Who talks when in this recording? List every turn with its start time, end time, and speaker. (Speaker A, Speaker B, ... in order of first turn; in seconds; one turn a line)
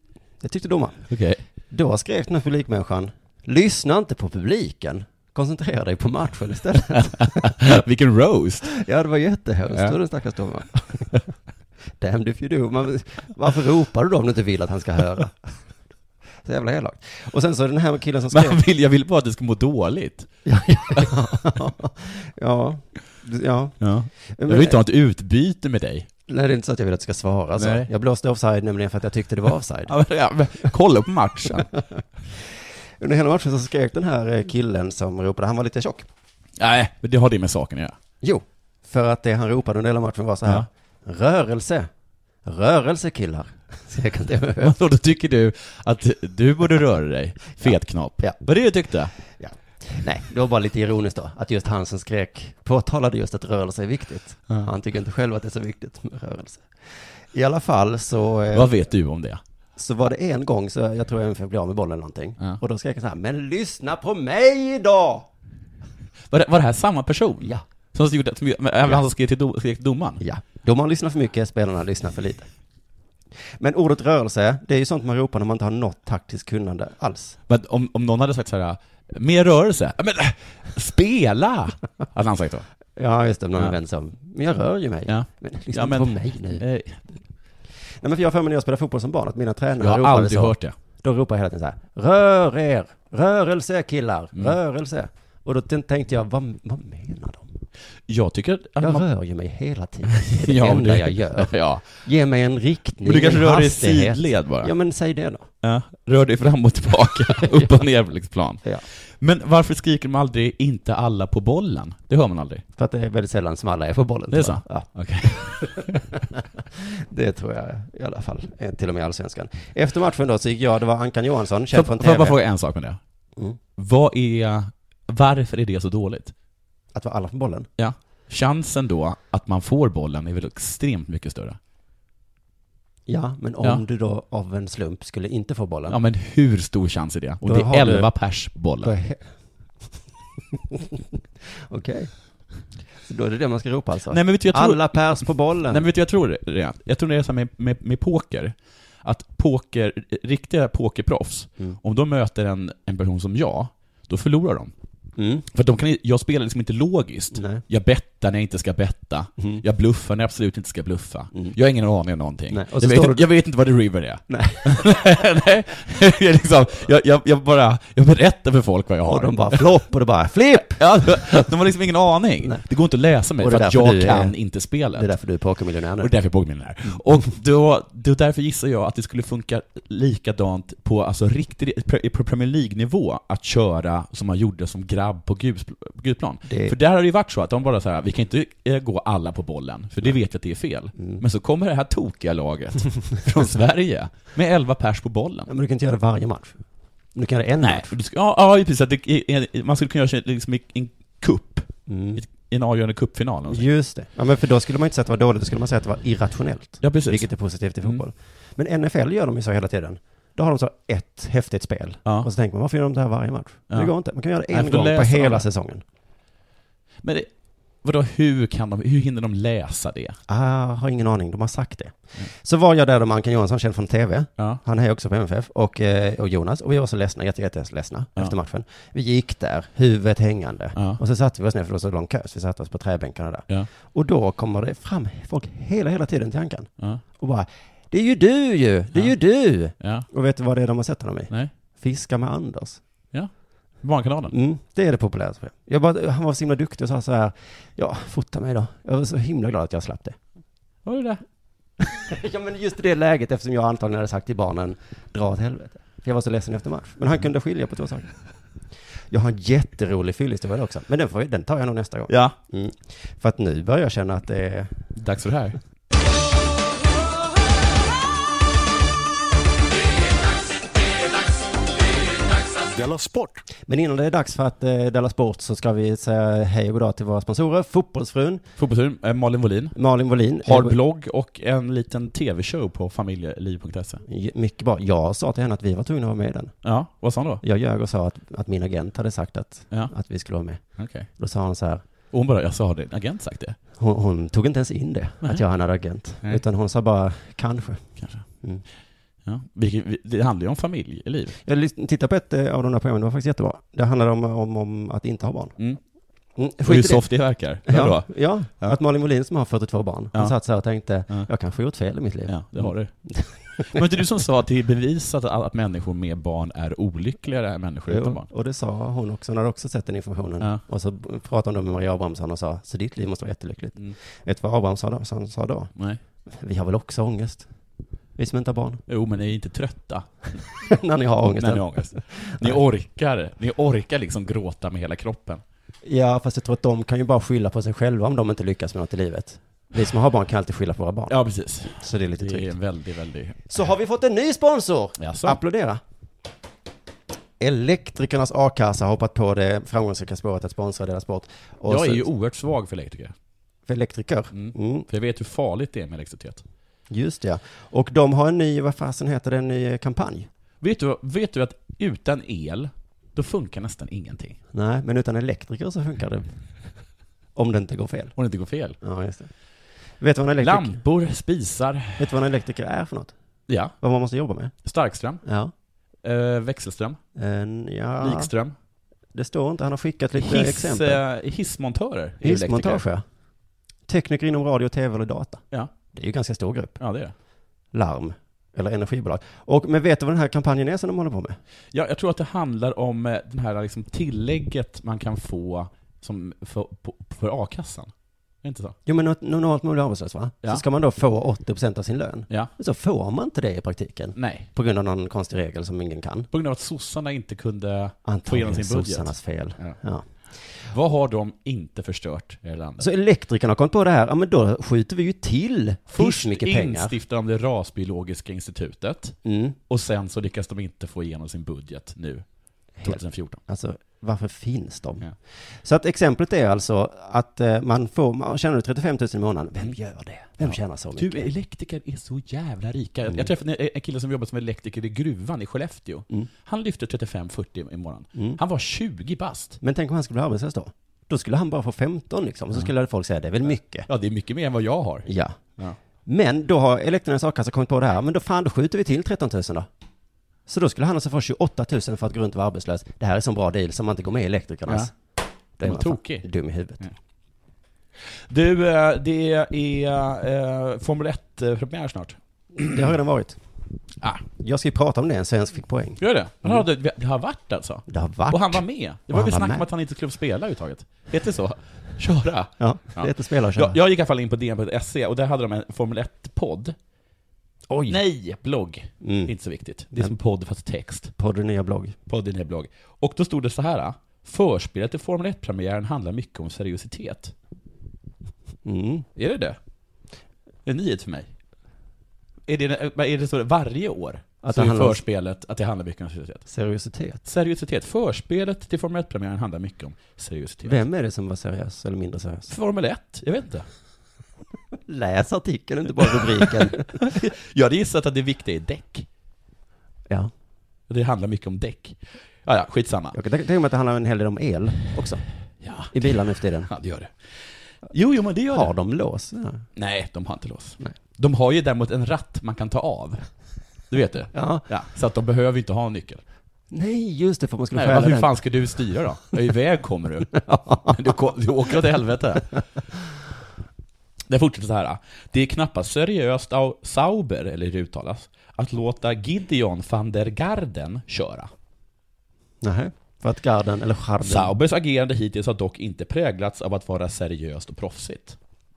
Speaker A: 0.4-1.1
Speaker B: 1.1-1.4
Speaker A: 1.7-7.5
Speaker B: 7.0-8.7
Speaker A: 8.7-11.2
Speaker B: 9.7-10.0
Speaker A: 12.0-15.6
Speaker A: 16.4-18.6
Speaker B: 18.3-20.3
Speaker A: 20.4-24.8
Speaker B: 23.8-26.1
Speaker A: 26.3-29.9
Speaker B: 27.6-27.9
Speaker B: 29.9-31.7
Speaker A: 31.6-36.1
Speaker B: 36.6-38.0
Speaker A: 38.2-41.9
Speaker A: 42.4-44.8
Speaker B: 44.6-49.1
Speaker A: 47.6-48.4
Speaker A: 49.2-58.7
Speaker B: 58.5-59.4
Speaker A: 59.8-65.3
Speaker B: 66.3-70.2
Speaker A: 70.2-72.5
Speaker A: 73.6-77.4
Speaker B: 77.5-82.7
Speaker A: 83.0-86.6
Speaker B: 85.1-87.2
Speaker A: 87.9-97.5
Speaker B: 89.8-90.8
Speaker B: 98.1-99.1
Speaker A: 98.8-105.5
Speaker B: 100.1-101.9
Speaker B: 103.0-104.7
Speaker B: 105.6-112.6
Speaker A: 107.3-107.7
Speaker A: 112.8-122.4
Speaker B: 114.3-116.0
Speaker B: 121.7-123.0
Speaker B: 123.8-126.3
Speaker A: 126.9-127.7
Speaker B: 127.8-131.6
Speaker A: 133.1-136.0
Speaker B: 135.9-138.9
Speaker A: 137.4-138.1
Speaker A: 138.8-139.3
Speaker A: 140.7-141.0
Speaker A: 141.7-142.1
Speaker A: 143.1-145.9
Speaker B: 144.1-154.7
Speaker A: 155.2-155.5
Speaker B: 155.5-169.7
Speaker A: 157.3-157.6
Speaker A: 159.4-159.6
Speaker A: 162.5-163.3
Speaker A: 164.3-164.9
Speaker A: 169.1-171.5
Speaker B: 170.7-175.1
Speaker A: 173.4-174.3
Speaker A: 174.9-176.1
Speaker B: 176.0-195.5
Speaker A: 186.4-186.8
Speaker A: 190.9-191.2
Speaker A: 195.5-196.6
Speaker A: 197.2-197.9
Speaker B: 197.6-203.7
Speaker A: 201.9-202.2
Speaker A: 203.5-215.8
Speaker B: 206.8-207.3
Speaker B: 214.5-215.5
Speaker B: 217.0-217.3
Speaker B: 217.8-220.2
Speaker A: 220.3-242.8
Speaker B: 239.8-240.1
Speaker B: 243.1-244.3
Speaker A: 244.3-250.2
Speaker B: 250.8-251.2
Speaker A: 251.8-258.1
Speaker A: 259.1-264.8
Speaker B: 262.1-262.4
Speaker B: 264.9-265.6
Speaker A: 273.6-278.4
Speaker B: 278.6-279.8
Speaker A: 279.8-280.8
Speaker B: 280.4-284.0
Speaker A: 284.1-286.5
Speaker B: 286.6-287.4
Speaker A: 287.4-291.8
Speaker B: 290.8-291.1
Speaker B: 292.1-293.6
Speaker A: 293.8-297.9
Speaker B: 298.0-298.2
Speaker B: 299.2-301.4
Speaker A: 301.4-305.6
Speaker A: 306.4-307.1
Speaker B: 306.6-308.8
Speaker A: 307.7-314.0
Speaker B: 312.3-312.9
Speaker B: 313.6-318.3
Speaker A: 317.9-325.7
Speaker A: 326.3-327.5
Speaker A: 328.2-328.8
Speaker B: 328.9-330.4
Speaker A: 330.6-332.6
Speaker B: 331.2-335.4
Speaker A: 335.8-341.1
Speaker B: 341.1-343.4
Speaker A: 341.8-342.5
Speaker A: 343.5-345.8
Speaker B: 345.0-345.4
Speaker A: 347.4-352.1
Speaker B: 351.7-353.1
Speaker A: 353.7-354.9
Speaker B: 354.3-356.4
Speaker A: 356.9-360.3
Speaker B: 360.6-364.4
Speaker A: 364.5-366.4
Speaker A: 367.4-368.1
Speaker B: 368.2-368.8
Speaker A: 368.8-369.3
Speaker A: 370.0-370.8
Speaker B: 370.4-372.2
Speaker A: 372.0-373.1
Speaker B: 373.5-373.8
Speaker A: 373.8-374.5
Speaker B: 374.6-375.2
Speaker A: 375.2-375.5
Speaker B: 376.0-377.0
Speaker A: 377.2-378.3
Speaker B: 378.0-378.6
Speaker A: 379.1-381.0
Speaker B: 380.2-382.9
Speaker A: 382.2-383.0
Speaker A: 383.9-385.4
Speaker A: 385.9-386.8
Speaker B: 386.8-387.1
Speaker A: 387.7-391.4
Speaker B: 391.7-397.9
Speaker B: 398.4-398.8
Speaker A: 398.9-406.3
Speaker B: 404.1-404.5
Speaker B: 406.3-409.8
Speaker A: 408.1-410.1
Speaker B: 410.6-412.9
Speaker A: 412.8-416.9
Speaker B: 415.9-419.2
Speaker A: 419.2-419.6
Speaker B: 419.7-422.2
Speaker A: 422.8-431.3
Speaker B: 422.8-423.4
Speaker B: 430.4-439.6
Speaker A: 438.1-438.4
Speaker A: 439.6-443.9
Speaker B: 443.9-445.8
Speaker A: 445.1-445.4
Speaker A: 446.1-449.7
Speaker A: 450.5-454.9
Speaker B: 454.7-454.9
Speaker A: 455.6-456.9
Speaker B: 455.6-456.3
Speaker B: 458.3-462.9
Speaker A: 462.6-463.4
Speaker A: 464.4-466.6
Speaker B: 466.0-476.8
Speaker A: 467.9-469.7
Speaker A: 472.6-473.8
Speaker A: 477.7-478.0
Speaker B: 477.9-481.1
Speaker A: 479.0-479.3
Speaker A: 481.2-482.0
Speaker B: 482.1-487.3
Speaker A: 488.6-489.1
Speaker B: 489.2-489.6
Speaker B: 490.7-491.3
Speaker B: 492.5-496.5
Speaker A: 494.4-495.0
Speaker A: 496.5-497.2
Speaker B: 497.2-500.8
Speaker A: 500.6-502.5
Speaker B: 502.5-503.7
Speaker A: 504.9-506.9
Speaker B: 506.4-509.1
Speaker B: 510.9-513.2
Speaker A: 513.1-515.2
Speaker B: 515.6-517.4
Speaker A: 515.9-516.7
Speaker B: 517.9-518.7
Speaker A: 518.5-519.6
Speaker B: 519.8-523.2
Speaker B: 523.9-526.2
Speaker A: 524.3-524.6
Speaker A: 526.7-528.4
Speaker B: 527.8-532.5
Speaker A: 530.3-531.1
Speaker B: 534.3-541.5
Speaker A: 542.6-544.5
Speaker B: 544.2-548.4